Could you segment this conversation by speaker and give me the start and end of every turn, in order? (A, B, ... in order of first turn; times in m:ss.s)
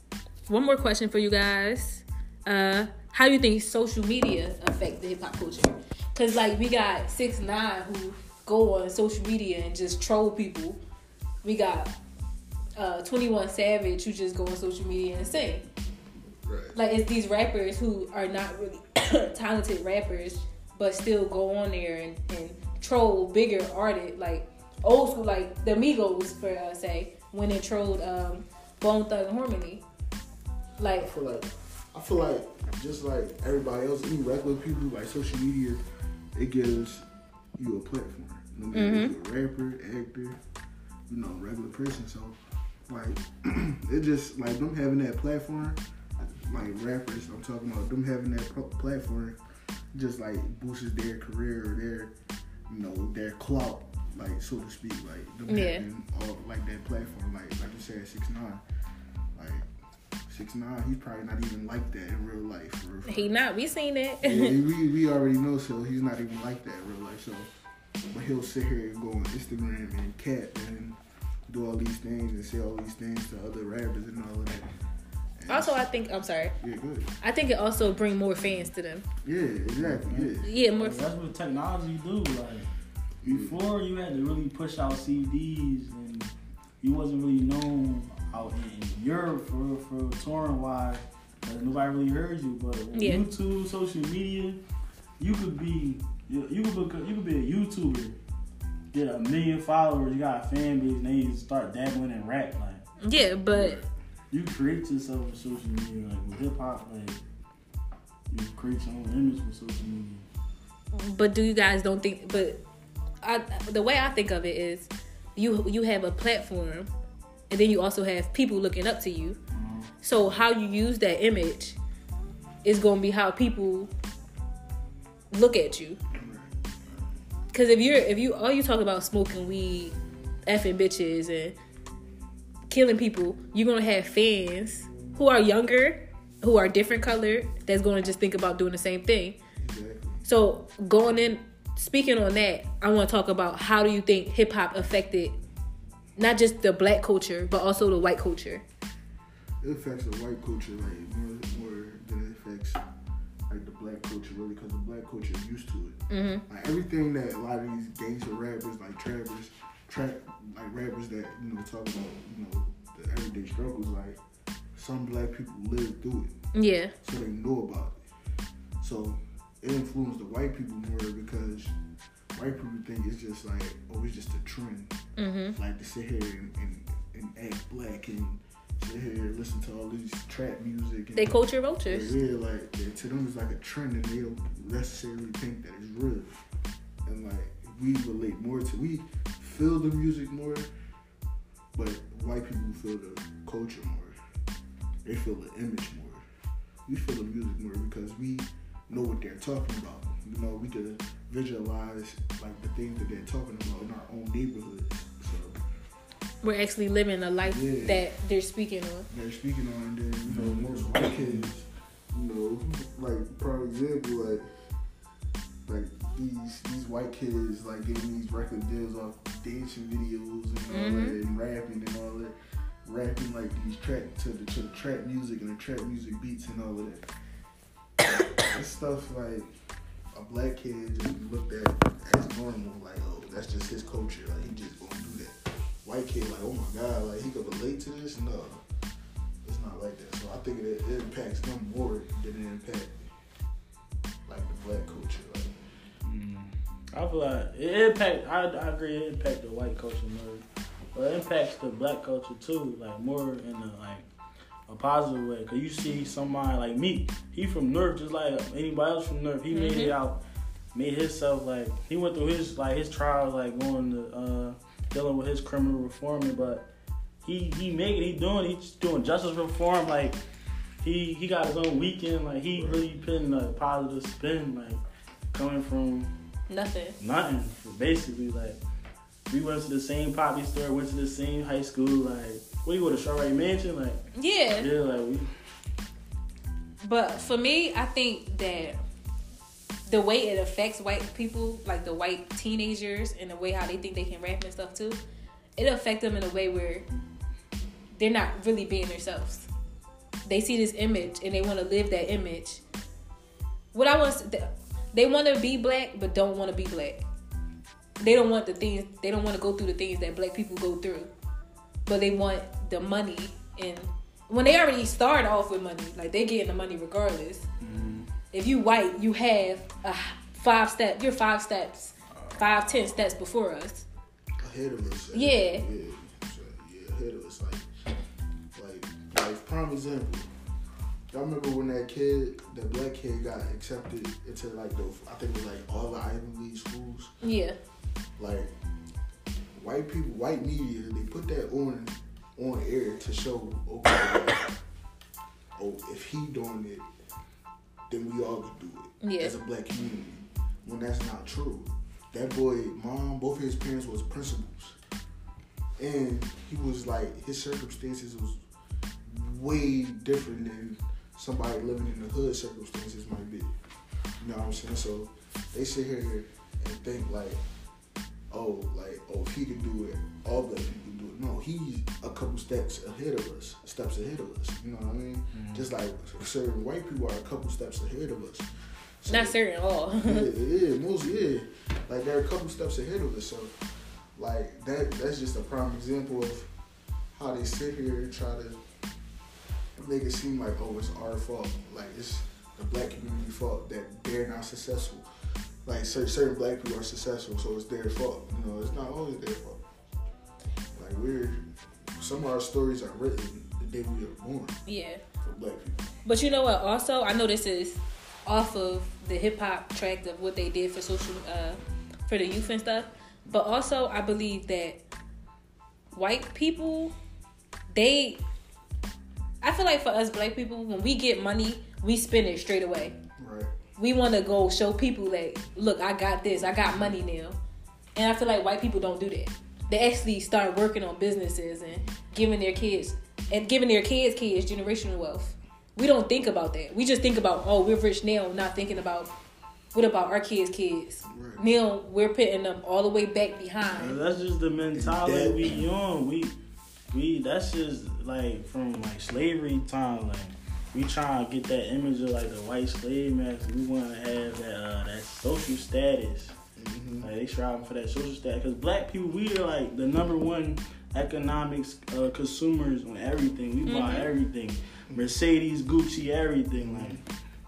0:00.5-0:10.8 A
0:11.4-0:11.9 A
0:12.8-0:15.6 A
0:16.4-0:16.8 B
0:16.7-0:29.8 A
0:30.8-0:31.1 A
0:30.9-0:35.8 B
0:36.4-0:40.4 B
0:38.7-0:39.1 A
0:41.1-0:49.4 B
0:49.9-0:52.1 B
0:52.7-0:58.6 B
0:55.5-0:55.8 A
0:59.4-0:59.7 B
1:00.3-1:03.3 B
1:03.1-1:04.6 A
1:04.2-1:07.5 B
1:08.1-1:14.7 B
1:15.4-1:15.9 B
1:15.5-1:16.6 A
1:16.6-1:17.1 B
1:17.2-1:19.1 A
1:19.2-1:20.5 B
1:19.8-1:22.7 C
1:20.4-1:21.0 A
1:23.2-1:23.6 B
1:23.2-1:34.6 C
1:32.9-1:33.2 A
1:35.2-1:38.2 C
1:38.9-1:42.8 C
1:43.0-1:43.8 A
1:43.5-1:43.8 B
1:44.3-1:47.2 C
1:48.3-1:50.3 C
1:50.9-1:52.6 A
1:53.2-1:56.9 A
1:57.5-1:59.4 A
1:59.5-1:59.9 C
2:00.0-2:01.8 A
2:02.6-2:03.9 A
2:05.3-2:06.0 A
2:06.1-2:07.1 B
2:07.5-2:11.6 A
2:12.7-2:19.4 A
2:19.6-2:20.2 B
2:20.2-2:25.4 A
2:26.2-2:28.6 A
2:29.6-2:32.8 B
2:33.5-2:44.2 B
2:36.1-2:36.4 A
2:44.8-2:46.3 B
2:46.5-2:46.9 A
2:47.0-2:48.0 B
2:48.8-2:51.8 B
2:52.4-2:55.0 B
2:55.2-2:55.6 A
2:55.6-3:06.4 B
3:01.2-3:02.1 A
3:07.0-3:10.7 B
3:11.7-3:14.2 B
3:15.0-3:16.2 B
3:16.9-3:25.6 B
3:26.4-3:29.1 A
3:27.4-3:28.0 B
3:29.1-3:34.5 B
3:30.2-3:31.5 C
3:35.7-3:47.1 B
3:40.7-3:41.2 A
3:48.4-3:49.5 B
3:50.1-3:58.6 B
3:59.4-4:03.1 B
4:04.3-4:05.6 B
4:06.0-4:14.1 C
4:14.7-4:20.2 C
4:19.5-4:19.9 A
4:20.7-4:26.6 C
4:27.2-4:30.2 C
4:30.8-4:34.8 C
4:32.6-4:32.9 B
4:35.3-4:36.1 C
4:36.5-4:37.0 A
4:37.0-4:38.6 C
4:39.3-4:44.0 C
4:44.2-4:44.7 A
4:44.6-4:45.3 C
4:46.8-4:48.8 A
4:49.9-4:55.0 A
4:55.6-4:56.8 A
4:58.0-4:59.5 A
5:00.3-5:02.6 A
5:03.7-5:07.0 A
5:08.0-5:11.1 A
5:11.9-5:17.5 A
5:17.6-5:18.1 C
5:18.3-5:23.9 A
5:22.2-5:22.4 C
5:24.4-5:27.7 B
5:25.1-5:25.6 A
5:28.6-5:30.3 B
5:31.1-5:37.1 B
5:37.2-5:37.6 A
5:38.2-5:38.5 B
5:39.6-5:44.5 B
5:45.6-5:46.9 B
5:47.9-5:54.8 B
5:49.0-5:49.4 A
5:55.8-5:58.4 B
5:59.1-6:03.5 B
6:04.2-6:07.4 B
6:08.3-6:18.5 B
6:15.3-6:15.7 C
6:19.0-6:19.4 B
6:19.1-6:20.3 A
6:20.0-6:23.6 B
6:24.2-6:26.5 B
6:27.1-6:28.6 B
6:29.8-6:35.1 B
6:35.6-6:39.6 B
6:40.8-6:44.6 B
6:44.7-6:45.0 A
6:45.2-6:45.9 B
6:46.0-6:54.8 A
6:55.9-6:57.0 A
6:57.7-6:58.2 A
6:59.4-7:03.0 A
7:03.2-7:03.5 B
7:03.8-7:07.4 A
7:08.0-7:19.1 A
7:19.7-7:24.0 A
7:21.1-7:21.4 B
7:23.7-7:26.4 C
7:24.7-7:25.7 B
7:26.9-7:36.3 C
7:36.6-7:37.1 B
7:37.0-7:47.0 C
7:43.7-7:44.1 A
7:46.6-7:47.0 B